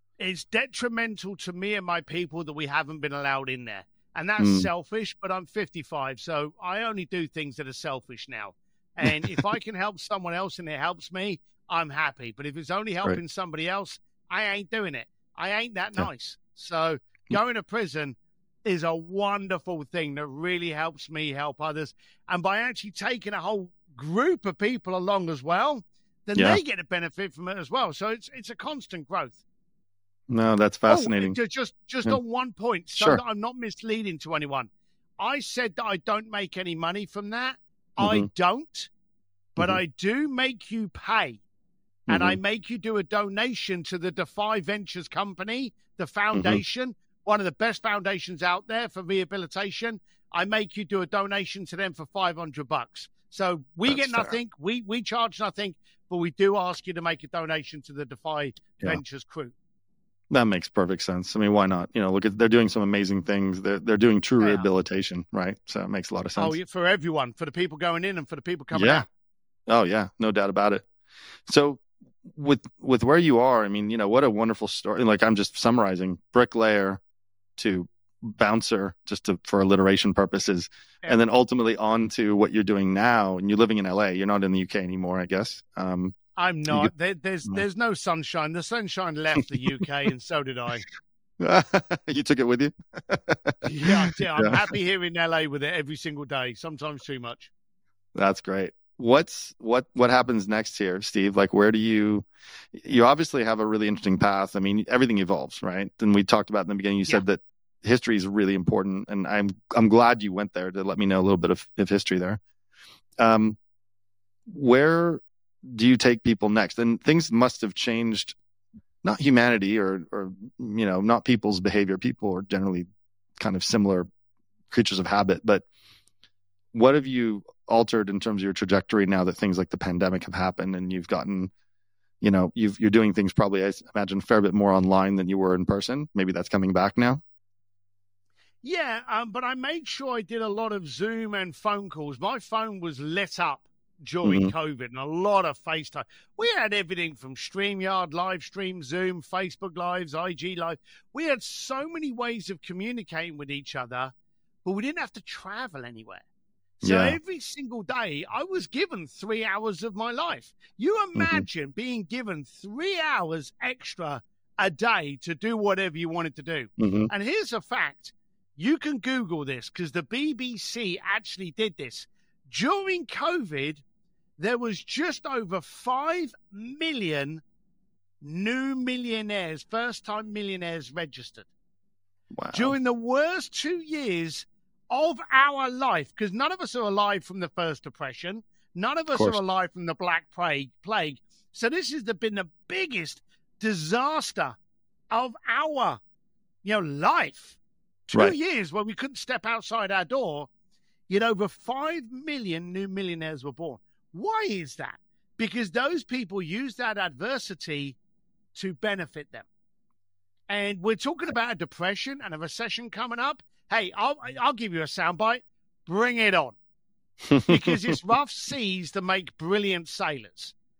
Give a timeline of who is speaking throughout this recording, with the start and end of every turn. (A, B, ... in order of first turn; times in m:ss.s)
0:00.2-0:29.4 A
0:04.4-0:04.7 B
0:09.1-0:09.4 B
0:30.3-0:31.4 B
0:30.9-0:38.9 A
0:32.9-0:33.2 B
0:38.0-0:38.3 B
0:39.6-0:41.4 A
0:42.1-0:42.4 B
0:42.1-0:59.5 A
0:46.3-0:46.6 B
0:53.8-0:54.4 B
1:00.3-1:06.6 B
1:04.4-1:04.7 A
1:06.4-1:09.0 A
1:08.7-1:09.0 B
1:09.7-1:10.8 B
1:11.5-1:17.0 B
1:17.6-1:26.2 B
1:26.4-1:30.8 A
1:31.4-1:34.6 B
1:33.6-1:37.5 A
1:38.1-1:52.4 B
1:53.2-1:53.6 B
1:54.5-1:58.4 B
1:59.0-2:02.8 B
2:03.4-2:04.1 B
2:04.7-2:05.6 B
2:06.7-2:11.5 B
2:12.2-2:17.2 B
2:18.6-2:34.1 A
2:24.2-2:24.5 B
2:34.6-2:36.2 A
2:36.8-2:37.2 B
2:36.8-2:53.8 A
2:41.2-2:41.4 B
2:46.8-2:47.1 B
2:54.4-2:57.4 A
2:58.2-3:01.5 A
3:02.3-3:02.7 B
3:02.5-3:14.6 A
3:09.1-3:09.4 B
3:15.1-3:16.0 A
3:16.6-3:20.5 A
3:21.1-3:28.0 A
3:28.5-3:29.5 A
3:30.5-3:36.6 A
3:37.3-3:37.9 B
3:37.5-3:40.5 A